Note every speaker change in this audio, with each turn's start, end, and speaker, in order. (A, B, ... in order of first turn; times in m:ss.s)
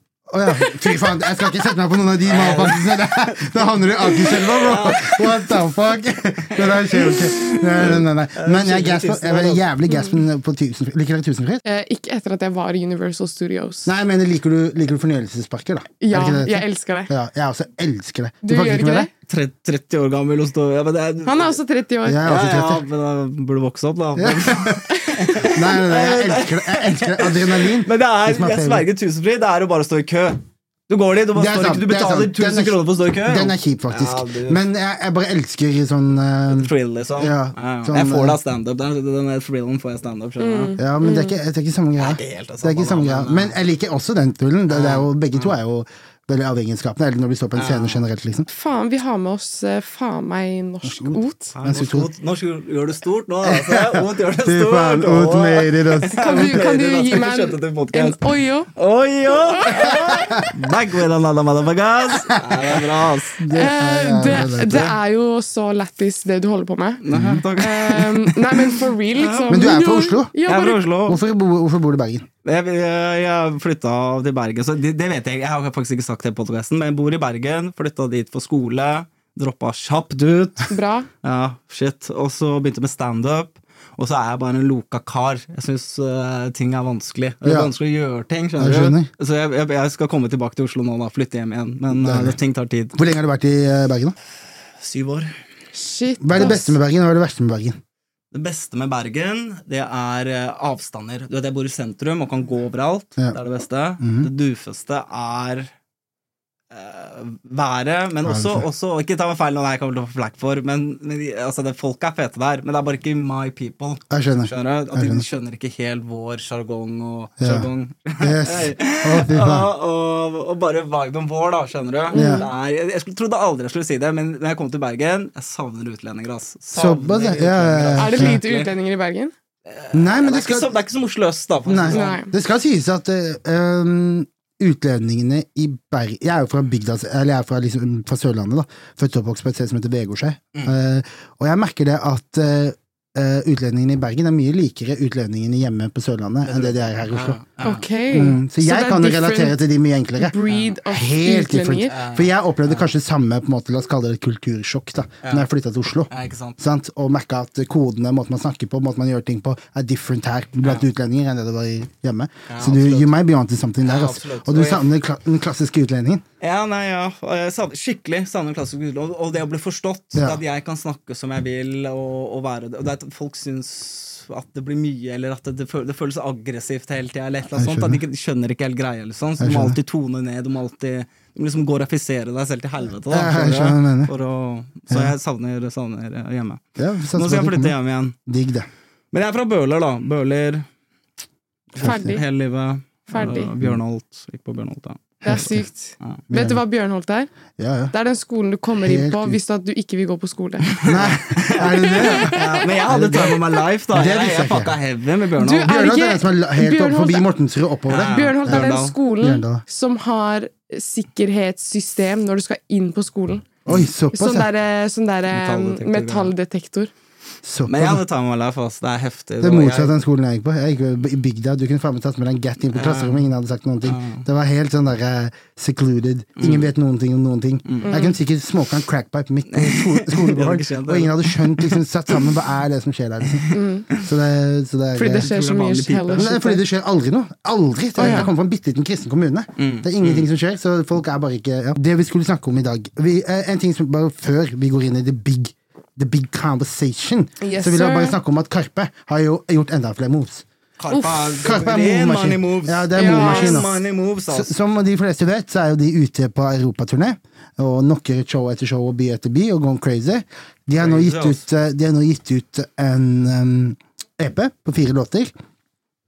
0:00.3-0:11.6 A
0:02.2-0:03.6 B
0:04.2-0:05.5 B
0:06.5-0:09.6 B
0:09.9-0:10.2 C
0:11.6-0:13.9 C
0:13.9-0:19.1 A
0:16.0-0:17.1 C
0:18.4-0:19.1 C
0:19.3-0:21.6 B
0:21.3-0:22.2 C
0:22.1-0:22.8 A
0:22.2-0:34.6 B
0:24.2-0:24.8 A
0:24.9-0:25.4 C
0:25.4-0:28.9 A
0:31.4-0:38.4 A
0:36.5-0:40.8 B
0:40.4-0:41.3 C
0:40.8-0:48.5 A
0:42.0-0:43.6 B
0:44.7-0:45.6 B
0:47.6-0:48.0 B
0:48.5-0:51.6 C
0:50.8-0:52.1 A
0:51.6-1:03.5 B
0:53.4-0:56.6 A
0:56.2-0:58.7 C
0:59.3-1:00.4 C
1:02.2-1:02.9 A
1:03.4-1:04.9 A
1:03.5-1:10.8 C
1:04.3-1:04.9 B
1:07.0-1:09.8 B
1:07.1-1:07.4 A
1:09.5-1:10.3 A
1:10.4-1:11.2 B
1:11.1-1:12.3 A
1:12.4-1:33.0 B
1:20.7-1:21.1 C
1:27.4-1:27.7 A
1:28.6-1:29.1 A
1:31.9-1:32.4 A
1:32.9-1:34.2 A
1:34.8-1:35.3 B
1:35.7-1:36.8 C
1:36.2-1:37.8 A
1:38.3-1:45.7 B
1:44.0-1:44.3 A
1:46.7-2:08.7 B
1:48.2-1:48.6 A
1:54.1-1:55.2 A
1:57.4-1:57.7 A
1:58.2-1:59.7 A
2:02.1-2:02.5 C
2:02.1-2:02.5 A
2:06.7-2:08.4 A
2:08.0-2:09.3 C
2:09.7-2:12.2 B
2:09.9-2:10.7 A
2:11.7-2:27.4 A
2:11.9-2:12.3 C
2:26.4-2:27.8 B
2:27.6-2:29.6 C
2:28.1-2:46.2 A
2:30.2-2:31.9 C
2:30.5-2:30.7 B
2:31.9-2:32.9 B
2:36.1-2:36.6 B
2:42.5-2:43.1 B
2:43.8-2:44.9 B
2:46.4-3:06.6 B
2:50.2-2:50.4 A
2:57.5-2:58.0 A
2:59.4-2:59.8 A
3:03.1-3:04.1 A
3:06.8-3:07.8 A
3:07.1-3:08.2 B
3:08.3-3:08.7 A
3:09.1-3:10.7 B
3:11.7-3:16.2 B
3:11.8-3:12.1 A
3:11.8-3:12.2 C
3:13.1-3:13.5 C
3:15.2-3:17.3 C
3:15.3-3:15.6 A
3:16.3-3:16.6 A
3:17.6-3:17.9 A
3:17.9-3:20.8 C
3:18.8-3:19.4 A
3:20.7-3:25.7 B
3:20.8-3:23.4 A
3:21.6-3:23.2 C
3:23.9-3:24.8 A
3:25.4-3:27.3 C
3:25.6-3:29.6 A
3:27.9-3:29.0 B
3:28.0-3:33.5 C
3:33.7-3:34.5 A
3:34.1-3:36.9 C
3:35.3-3:36.3 B
3:37.4-3:38.0 A
3:37.7-3:40.0 B
3:39.4-3:55.3 A
3:42.7-3:43.2 B
3:43.8-3:44.2 B
3:46.4-3:46.7 B
3:47.7-3:48.0 B
3:47.9-3:48.1 C
3:49.5-3:52.3 B
3:53.3-3:54.1 B
3:53.5-3:53.9 C
3:55.0-3:56.6 C
3:55.2-3:56.3 B
3:56.2-4:10.4 A
3:58.0-3:58.3 C
3:58.0-3:58.3 B
3:59.6-4:00.3 B
4:07.4-4:08.2 C
4:10.8-4:14.5 B
4:10.9-4:11.3 C
4:11.4-4:25.3 A
4:13.0-4:13.6 C
4:20.8-4:21.4 B